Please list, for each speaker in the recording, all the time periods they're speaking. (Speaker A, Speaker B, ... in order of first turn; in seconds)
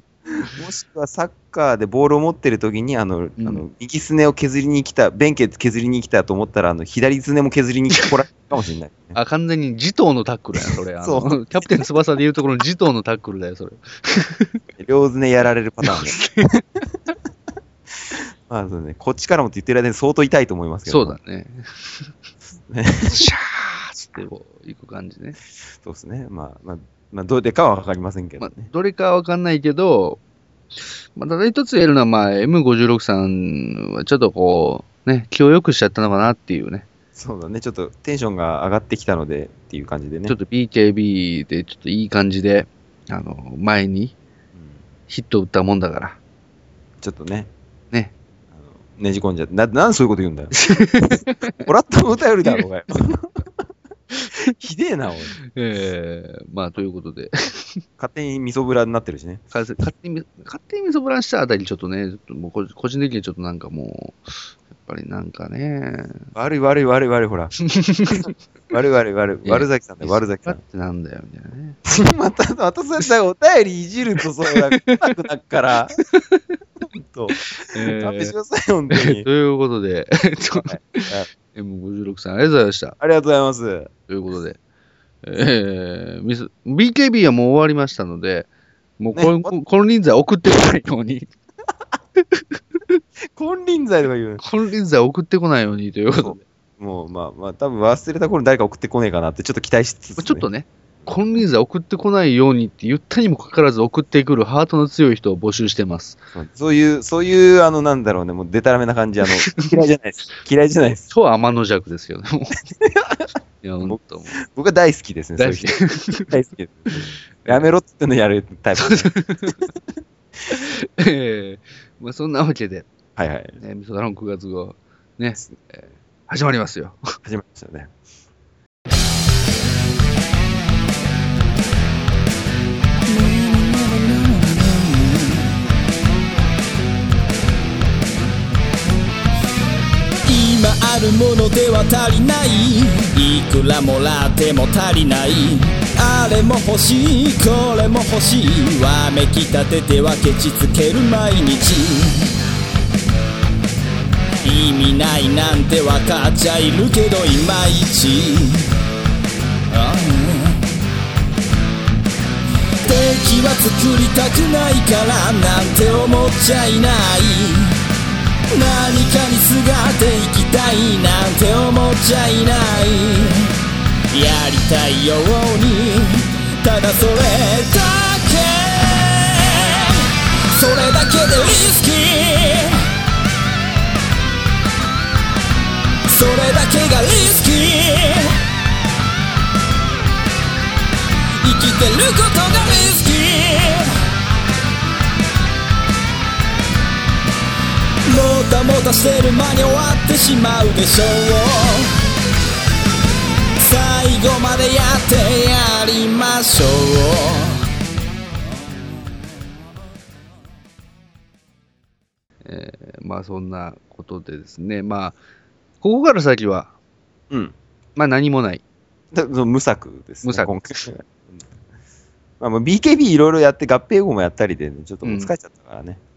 Speaker A: 0.5-9.2, 11.0-11.9, 14.8-16.3, 18.1-21.1, 22.7-23.3, 25.8-28.7, 37.1-40.3, 44.5-44.8, 47.0-47.5, 48.9-53.5, 54.5-55.3, 58.0-59.4, 66.3-67.5, 68.7-70.6, 71.8-76.0, 76.9-79.2, 80.5-81.3, 83.0-83.9, 89.1-89.5, 93.3-94.4, 96.1-100.5, 106.3-111.1, 112.8-113.3, 113.8-115.7, 116.2-119.2, 123.2-123.6, 127.2-127.9, 217.3-217.5, 219.1-221.4, 222.4-226.0
Speaker B: 3.4-3.6, 9.1-14.6, 15.8-16.6, 20.9-22.1, 23.1-25.4, 28.4-30.2, 31.1-36.9, 40.3-44.1, 45.1-46.2, 50.6-51.6, 55.5-57.8, 59.5-66.3, 67.7-68.3, 69.4-71.8, 74.5-75.1, 76.1-76.4, 77.4-78.3, 78.9-83.0, 84.1-84.6, 85.2-88.5, 89.0-91.3, 92.3-93.0, 94.4-96.4, 100.2-106.2, 109.5-109.7, 111.1-112.6, 113.6-114.4, 115.4-116.3, 116.9-117.6, 118.8-119.6, 120.5-122.9, 123.6-127.0, 212.4-215.2, 215.8-216.7, 217.9-218.6, 220.2-220.9, 225.0-225.3
Speaker C: 133.1-135.5, 140.2-152.3, 154.4-158.6, 159.7-160.7, 162.8-167.8, 168.5-173.5, 174.1-182.8, 186.1-188.3, 191.4-193.9, 198.1-201.9, 203.6-207.6